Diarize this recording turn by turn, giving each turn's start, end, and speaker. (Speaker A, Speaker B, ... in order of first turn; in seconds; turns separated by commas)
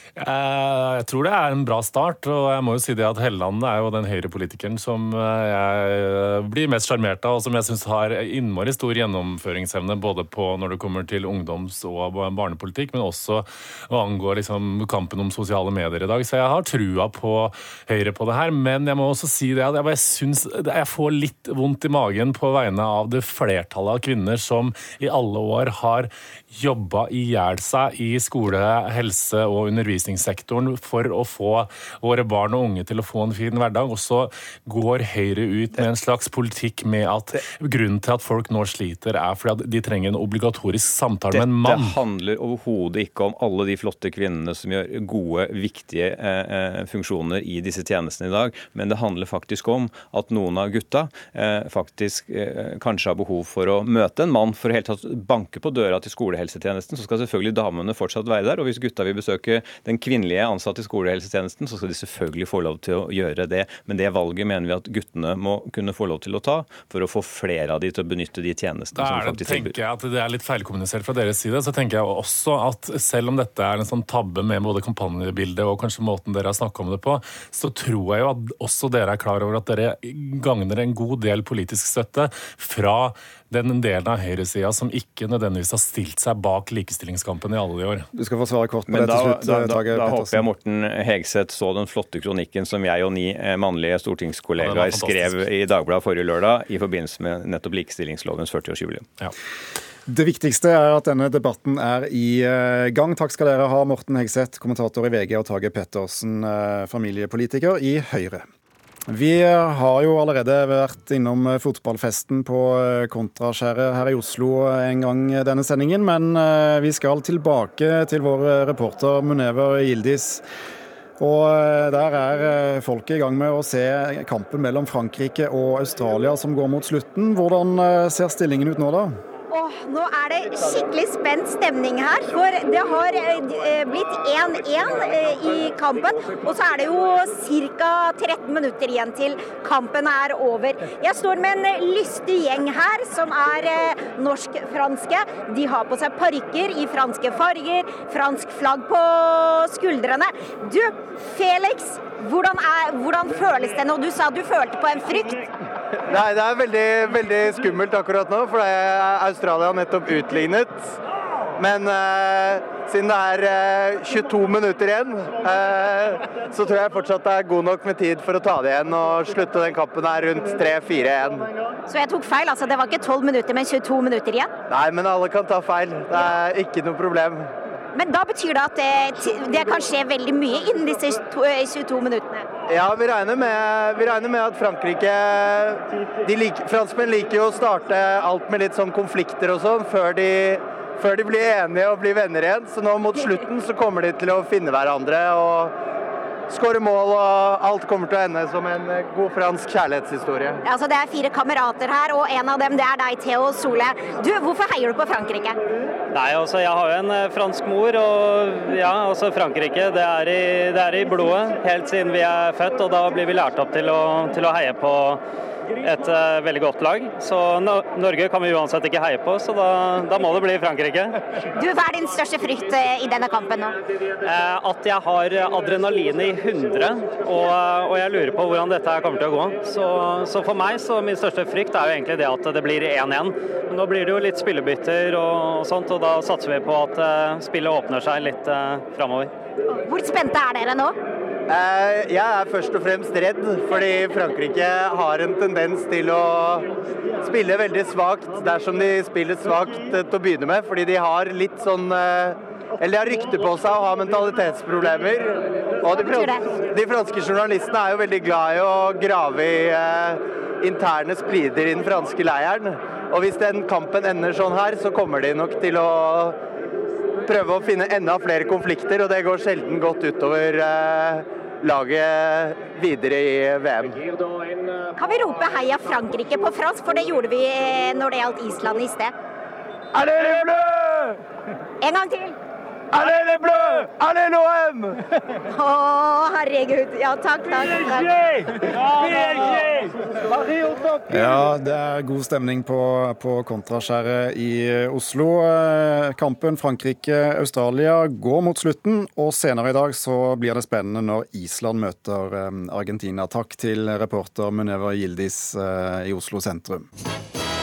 Speaker A: 0.2-42.0, Speaker B: 41.3-69.7, Speaker A: 68.9-88.1, Speaker C: 88.1-90.4, Speaker B: 88.9-99.1, Speaker A: 94.6-95.4, Speaker C: 100.0-108.4, Speaker C: 109.1-120.4, Speaker C: 121.2-129.2, Speaker D: 129.5-155.5, Speaker E: 156.1-161.0, Speaker E: 161.6-171.5, Speaker D: 171.9-174.5, Speaker E: 174.7-177.5, Speaker D: 177.9-182.4, Speaker E: 182.7-195.7, Speaker E: 196.5-200.6, Speaker D: 200.6-205.6, Speaker F: 206.1-215.2, Speaker F: 215.8-221.2, Speaker D: 221.5-223.8, Speaker F: 224.2-239.3, Speaker D: 239.8-240.9, Speaker E: 241.5-246.7, Speaker E: 247.2-266.4, Speaker D: 255.9-256.5, Speaker E: 267.2-274.0, Speaker D: 274.9-279.1, Speaker E: 279.9-281.1, Speaker D: 281.8-282.4, Speaker E: 282.9-285.0, Speaker D: 285.5-288.3, Speaker E: 288.7-291.1, Speaker C: 291.1-306.9